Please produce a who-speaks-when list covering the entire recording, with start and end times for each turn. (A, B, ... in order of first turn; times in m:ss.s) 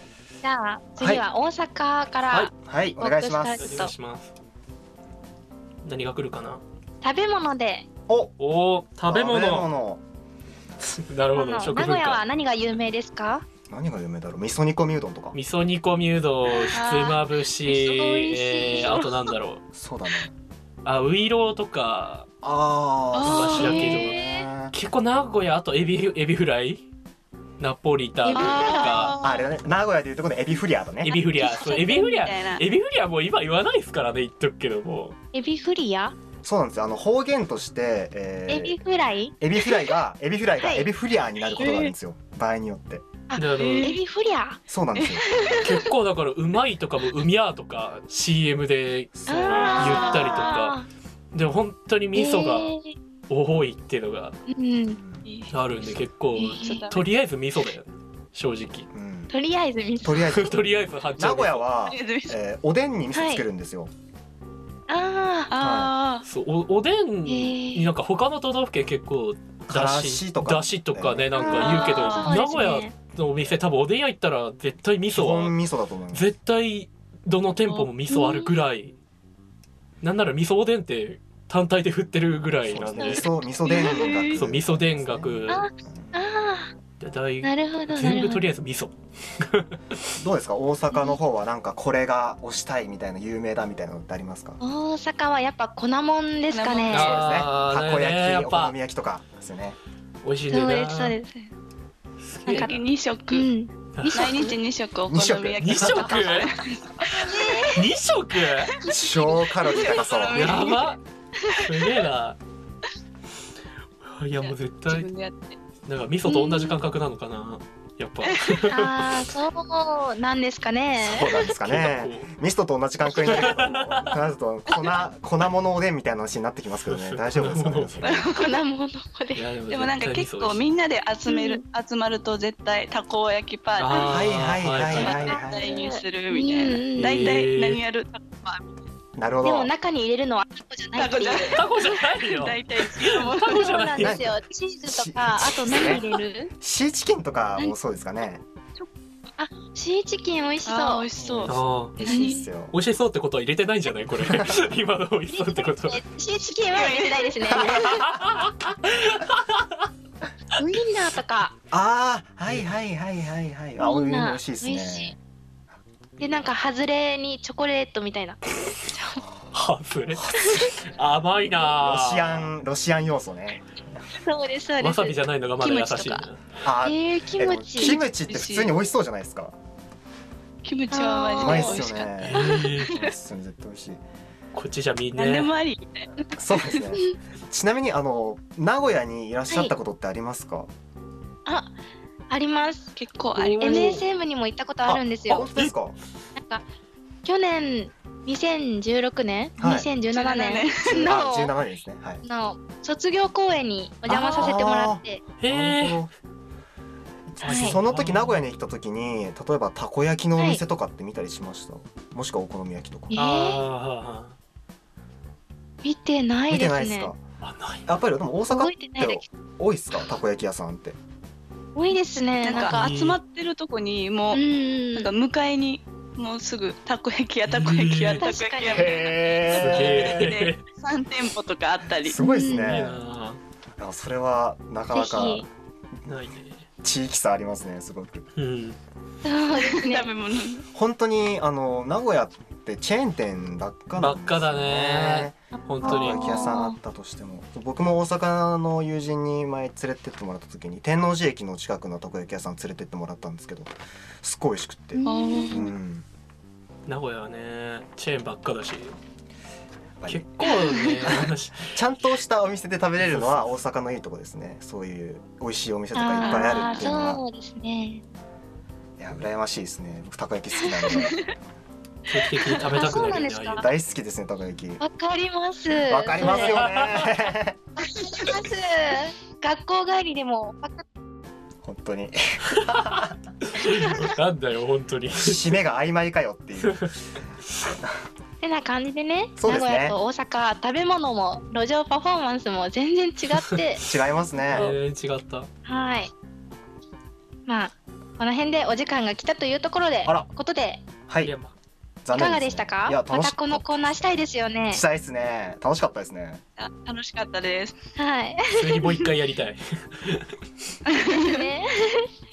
0:00.4-0:03.9 A
0:01.0-0:01.2 B
0:02.6-0:03.8 B
0:03.6-0:04.3 C
0:05.8-0:06.6 C
0:07.0-0:07.9 A
0:08.1-0:08.4 B
0:08.4-0:09.7 C
0:09.1-0:10.0 B
0:10.8-0:12.2 C
0:11.4-0:13.4 A
0:13.7-0:15.4 B
0:15.3-0:19.6 C
0:16.7-0:17.1 A
0:16.7-0:17.2 D
0:17.7-0:19.0 A
0:19.7-0:20.3 B
0:20.8-0:22.3 C
0:22.4-0:24.7 B
0:23.1-0:24.2 D
0:23.2-0:26.9 C
0:23.6-0:24.5 A
0:27.6-0:29.2 C
0:28.2-0:29.0 A
0:28.3-0:29.5 D
0:29.2-0:31.2 B
0:31.0-0:35.2 C
0:31.3-0:32.6 D
0:35.3-0:36.2 A
0:36.4-0:38.8 B
0:38.5-0:39.3 A
0:39.4-0:43.0 B
0:40.6-0:40.9 A
0:41.6-0:41.9 D
0:43.3-0:44.6 A
0:43.4-0:44.0 C
0:43.5-0:44.0 D
0:44.7-0:45.2 B
0:45.0-0:45.7 D
0:45.3-0:45.8 A
0:45.6-0:50.8 C
0:49.2-0:49.7 B
0:49.3-0:50.9 A
0:49.7-0:50.6 D
0:51.3-0:52.7 C
0:52.2-0:53.0 A
0:53.3-0:54.4 C
0:54.5-0:55.0 A
0:54.9-0:55.3 B
0:55.2-0:56.0 D
0:55.5-0:58.9 C
0:56.3-0:56.9 A
0:56.5-0:57.1 D
0:58.9-0:59.3 B
0:59.3-1:00.3 A
1:00.0-1:03.9 B
1:00.2-1:01.7 C
1:01.8-1:02.4 D
1:03.1-1:03.4 A
1:04.9-1:05.5 A
1:05.5-1:06.2 D
1:05.6-1:05.9 B
1:06.2-1:15.6 C
1:07.3-1:07.9 A
1:09.7-1:11.9 B
1:11.4-1:12.9 A
1:11.5-1:12.3 D
1:15.1-1:16.3 B
1:16.1-1:19.0 C
1:18.1-1:18.6 A
1:20.0-1:23.4 C
1:22.7-1:26.2 B
1:23.0-1:24.2 A
1:23.6-1:24.4 D
1:24.3-1:25.7 C
1:25.5-1:26.7 A
1:27.0-1:30.1 C
1:27.4-1:28.4 A
1:30.2-1:34.6 B
1:30.9-1:31.2 A
1:34.6-1:37.2 A
1:36.5-1:37.1 D
1:36.9-1:38.8 C
1:36.9-1:39.8 B
1:40.2-1:41.2 C
1:40.5-1:41.5 A
1:42.2-1:42.8 C
1:42.5-1:43.5 D
1:42.5-1:44.6 A
1:44.0-1:44.3 C
1:44.1-1:47.6 D
1:45.1-1:46.1 B
1:45.6-1:46.5 C
1:47.1-1:47.9 A
1:47.7-1:48.7 C
1:48.9-1:50.6 B
1:49.6-1:51.0 D
1:50.3-1:51.0 C
1:51.6-1:52.4 C
1:54.0-1:55.1 C
1:54.4-1:55.6 D
1:55.8-1:59.3 C
1:56.3-1:56.8 A
1:58.3-1:58.5 D
1:58.6-2:01.3 A
2:01.0-2:08.2 B
2:01.6-2:02.3 C
2:03.1-2:04.2 C
2:06.8-2:08.2 C
2:08.0-2:08.6 D
2:08.3-2:09.5 A
2:09.4-2:10.7 C
2:09.7-2:14.2 D
2:11.3-2:11.6 A
2:13.8-2:15.3 C
2:14.0-2:15.7 B
2:14.9-2:18.8 D
2:15.2-2:17.4 A
2:16.9-2:17.8 C
2:19.2-2:19.7 B
2:19.4-2:21.6 A
2:21.0-2:23.7 D
2:21.5-2:24.2 C
2:23.3-2:26.5 A
2:24.0-2:26.0 B
2:26.6-2:28.4 B
2:29.4-2:31.1 A
2:30.7-2:32.4 D
2:31.2-2:32.8 B
2:31.5-2:32.1 C
2:32.0-2:32.5 A
2:32.7-2:36.0 C
2:35.3-2:38.1 A
2:36.5-2:37.9 D
2:37.7-2:39.6 C
2:40.6-2:41.6 A
2:41.7-2:45.2 B
2:43.8-2:45.2 A
2:46.2-2:49.2 A
2:49.5-2:52.5 C
2:50.2-2:50.8 B
2:51.7-2:53.8 B
2:54.2-2:55.2 A
2:54.8-2:56.5 C
2:55.6-2:56.3 D
2:56.6-2:59.6 B
2:56.8-2:58.0 A
2:57.8-2:58.8 D
3:00.6-3:03.1 D
3:00.9-3:01.9 A
3:01.4-3:04.0 B
3:02.2-3:03.0 C
3:04.5-3:05.5 C
3:05.1-3:06.8 D
3:06.4-3:10.7 B
3:09.5-3:09.8 A
3:11.5-3:11.7 A
3:12.3-3:12.9 A
3:13.0-3:14.0 D
3:13.4-3:14.0 B
3:13.4-3:13.8 C
3:13.6-3:15.5 A
3:14.8-3:16.0 B
3:16.4-3:16.6 A
3:17.2-3:21.6 A
3:19.6-3:19.9 B
3:20.1-3:21.0 D
3:20.8-3:22.2 B
3:22.2-3:25.2 A
3:24.1-3:26.1 B
3:25.4-3:26.0 C
3:27.3-3:33.2 B
3:27.4-3:28.4 C
3:27.4-3:27.8 A
3:33.1-3:33.6 A
3:33.1-3:34.4 C
3:35.8-3:37.1 A
3:36.5-3:37.2 B
3:37.4-3:37.9 C
3:37.9-3:41.0 B
3:38.5-3:39.2 A
3:41.8-3:42.9 A
3:42.4-3:44.4 D
3:42.5-3:43.2 C
3:44.3-3:45.1 A
3:44.9-3:52.2 D
3:47.4-3:48.3 C
3:48.2-3:49.3 A
3:48.7-3:50.3 B
3:49.5-3:50.6 C
3:52.0-3:53.0 B
3:52.2-3:52.7 A
3:52.5-3:53.4 C
3:53.8-3:55.5 B
3:54.9-3:55.5 A
3:56.1-3:56.6 C
3:56.8-3:58.3 B
3:58.4-3:58.8 C
3:59.2-4:00.1 A
3:59.6-4:00.6 D
4:00.7-4:16.1 B
4:04.0-4:06.3 C
4:05.6-4:06.8 A
4:14.9-4:15.7 A
4:15.1-4:15.7 D
4:16.9-4:19.0 C
4:20.0-4:20.3 B
4:20.1-4:21.8 C
4:20.4-4:21.1 A
4:21.0-4:27.2 B
4:23.0-4:23.6 C
4:26.0-4:28.0 A
4:26.2-4:26.9 D
4:29.0-4:31.4 B
4:30.6-4:31.0 A
4:32.1-4:33.7 C
4:32.7-4:33.7 A
4:32.9-4:34.8 B
4:34.8-4:36.6 A
4:35.8-4:37.6 B
4:36.2-4:37.1 C
4:37.8-4:40.8 A
4:41.6-4:43.1 B
4:42.5-4:45.6 C
4:45.1-4:46.9 B
4:46.6-4:46.9 C
4:48.4-4:53.9 A
4:49.4-4:50.0 B
4:53.8-4:54.8 B
4:54.4-4:55.5 C
4:55.7-4:56.1 A
4:57.5-5:00.8 A
5:00.0-5:00.3 B
5:01.1-5:01.3 B
5:01.2-5:01.5 C
5:02.0-5:03.7 B
5:02.1-5:04.8 A
5:04.7-5:06.4 B
5:06.6-5:07.8 D
5:08.0-5:09.0 A
5:08.5-5:10.3 C
5:10.9-5:11.4 D
5:11.0-5:12.1 A